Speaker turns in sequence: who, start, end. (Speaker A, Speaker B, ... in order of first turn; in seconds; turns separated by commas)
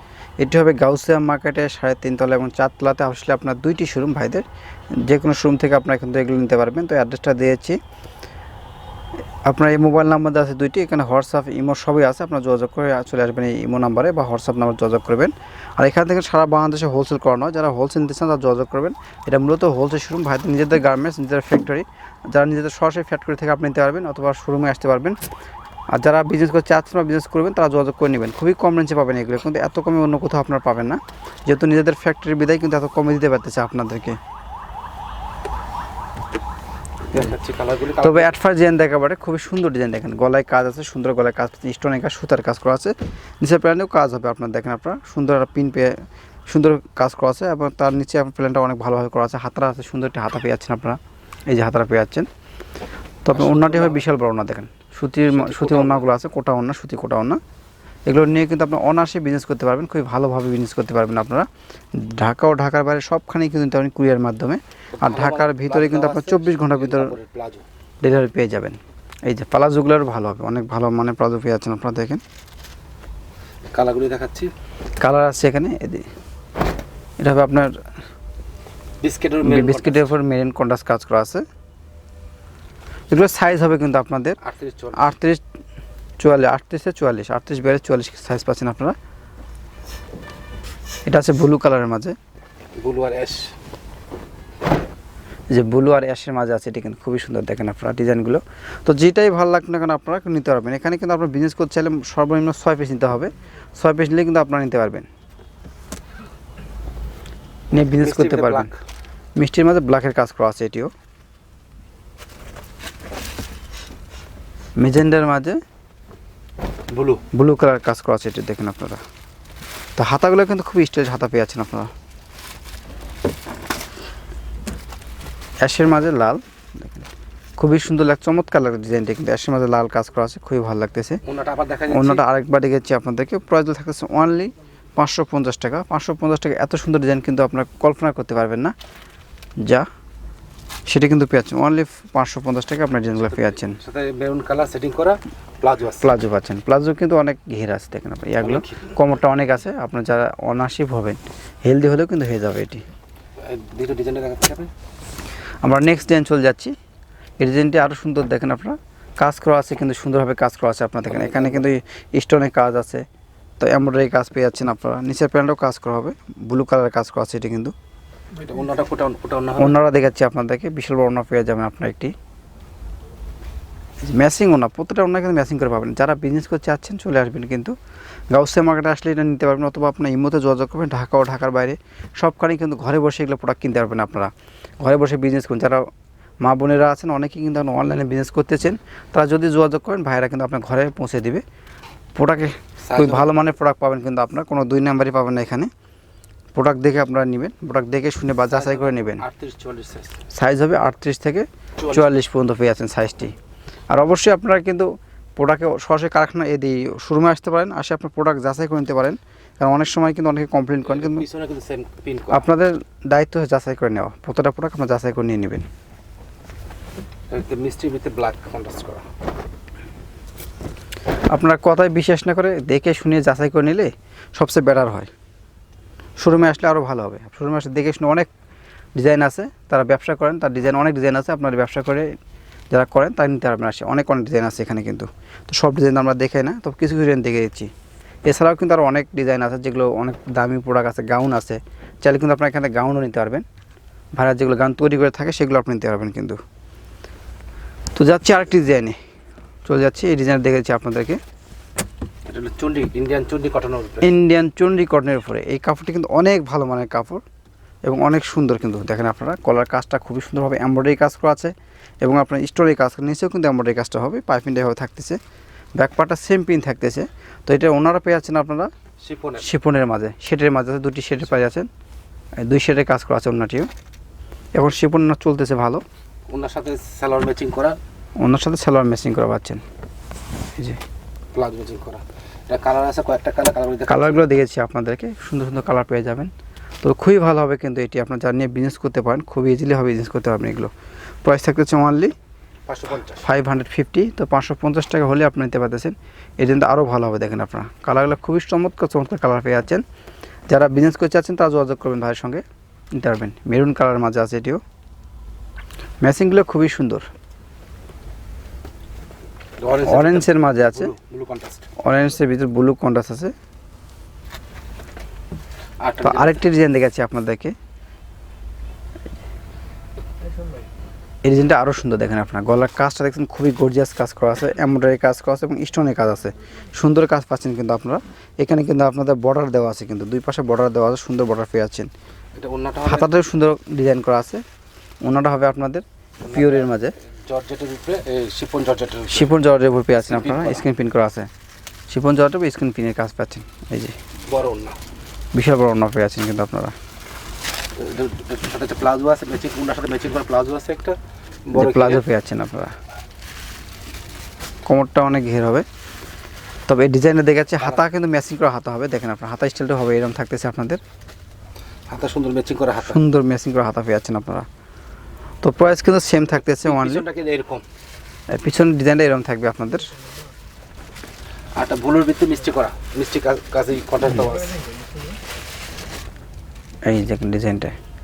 Speaker A: 0.4-7.8, Speaker A: 9.5-25.2, Speaker A: 25.9-34.2, Speaker B: 37.1-38.3, Speaker A: 38.0-46.0, Speaker A: 46.5-52.3, Speaker A: 53.2-57.4, Speaker B: 53.3-54.0, Speaker B: 55.3-56.1, Speaker A: 58.1-67.1, Speaker B: 65.0-67.6, Speaker A: 68.0-72.2, Speaker B: 73.7-74.5, Speaker A: 75.0-76.0, Speaker A: 77.2-77.7, Speaker B: 79.0-80.2, Speaker A: 79.4-81.4, Speaker A: 83.1-84.4, Speaker B: 84.4-85.1, Speaker A: 84.9-85.4, Speaker A: 86.2-88.9, Speaker A: 91.0-92.1, Speaker B: 92.8-93.5, Speaker A: 95.5-105.1, Speaker A: 107.7-108.7, Speaker B: 108.0-108.8, Speaker A: 109.4-110.9, Speaker A: 114.8-115.6, Speaker B: 116.9-117.2, Speaker A: 117.3-119.0, Speaker A: 120.0-121.9, Speaker A: 125.6-127.1, Speaker A: 127.6-131.2, Speaker B: 131.2-132.2, Speaker A: 131.9-138.7, Speaker A: 140.9-143.8, Speaker B: 143.1-146.1, Speaker A: 146.0-152.8, Speaker B: 148.4-148.9, Speaker B: 153.4-154.7, Speaker A: 155.6-156.7, Speaker A: 157.4-163.0, Speaker B: 161.0-161.7, Speaker A: 163.6-167.7, Speaker B: 168.4-169.7, Speaker A: 169.6-172.1, Speaker A: 174.0-177.7, Speaker A: 178.3-185.9, Speaker A: 186.4-191.4, Speaker A: 192.2-195.7, Speaker B: 192.8-193.3, Speaker A: 196.5-199.2, Speaker B: 198.5-200.2, Speaker A: 200.3-203.3, Speaker B: 201.8-202.1, Speaker A: 203.9-211.2, Speaker B: 210.8-212.5, Speaker A: 212.3-215.6, Speaker B: 217.3-219.1, Speaker A: 221.3-225.1, Speaker A: 226.2-228.3, Speaker A: 228.9-232.1, Speaker A: 232.7-237.7, Speaker A: 238.2-243.4, Speaker A: 244.1-246.4, Speaker A: 247.9-248.9, Speaker A: 249.6-251.2, Speaker B: 252.3-254.1, Speaker A: 254.0-257.2, Speaker A: 257.8-265.2, Speaker A: 265.8-268.7, Speaker B: 269.0-269.5, Speaker A: 269.4-271.7, Speaker A: 272.4-273.7, Speaker A: 274.5-275.8, Speaker B: 276.3-277.8, Speaker A: 278.2-279.6, Speaker B: 281.3-284.3, Speaker A: 283.9-286.3, Speaker A: 286.8-290.7, Speaker A: 291.2-292.1, Speaker B: 292.7-293.3, Speaker A: 293.2-299.8, Speaker A: 300.5-304.6, Speaker A: 306.0-307.1, Speaker B: 309.6-311.7, Speaker A: 309.8-310.9, Speaker A: 311.8-313.3, Speaker B: 315.8-316.4, Speaker A: 316.0-317.5, Speaker A: 321.2-331.9, Speaker B: 332.3-333.1, Speaker A: 332.9-334.4, Speaker A: 335.0-336.9, Speaker B: 336.2-336.7, Speaker B: 337.3-339.3, Speaker A: 339.1-341.3, Speaker B: 339.9-340.6, Speaker A: 341.9-343.9, Speaker B: 344.3-344.8, Speaker A: 345.3-346.7, Speaker B: 347.8-351.0, Speaker B: 351.5-352.0, Speaker A: 351.5-352.7, Speaker A: 354.6-355.6, Speaker A: 356.7-360.8, Speaker B: 361.9-363.0, Speaker A: 362.8-364.5, Speaker A: 365.4-367.0, Speaker B: 366.6-367.6, Speaker A: 368.3-369.9, Speaker B: 371.6-374.6, Speaker A: 376.9-377.7